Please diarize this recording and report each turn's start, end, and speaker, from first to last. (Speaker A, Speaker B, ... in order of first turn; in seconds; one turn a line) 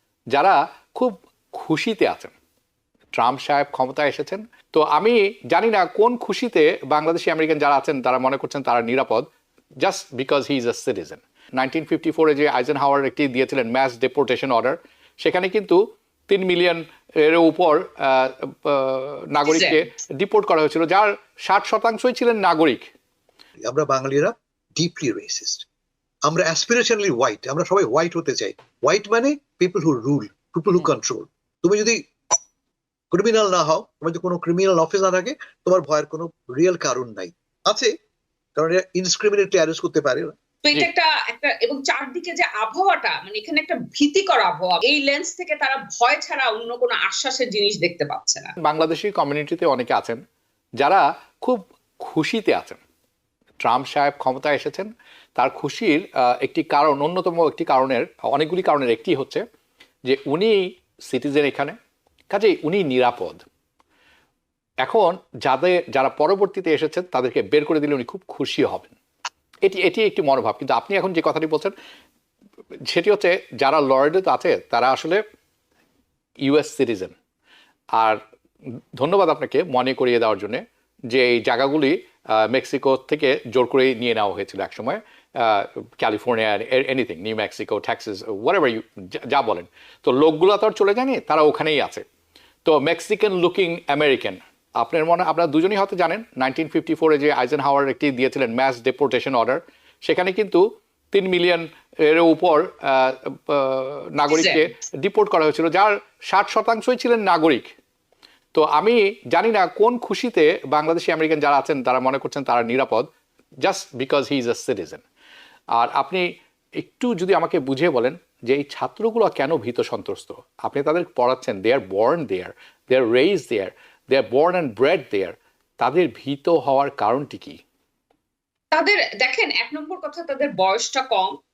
Speaker A: 0.3-2.3
Speaker A: 3.1-9.2
Speaker A: 9.8-22.9
Speaker B: 19.4-19.8
Speaker C: 23.6-25.6
Speaker C: 26.2-32.0
Speaker C: 33.1-37.9
Speaker C: 38.5-40.3
Speaker B: 40.6-48.5
Speaker A: 48.6-50.2
Speaker A: 50.8-52.8
Speaker A: 53.6-59.4
Speaker A: 60.0-61.8
Speaker A: 62.3-63.4
Speaker A: 64.8-68.9
Speaker A: 69.6-71.7
Speaker A: 72.8-75.2
Speaker A: 76.4-77.1
Speaker A: 77.9-78.2
Speaker A: 79.0-92.0
Speaker A: 92.6-107.7
Speaker B: 104.3-104.7
Speaker A: 108.5-113.1
Speaker A: 113.6-115.0
Speaker A: 115.7-116.2
Speaker A: 116.8-127.6
Speaker B: 128.7-131.3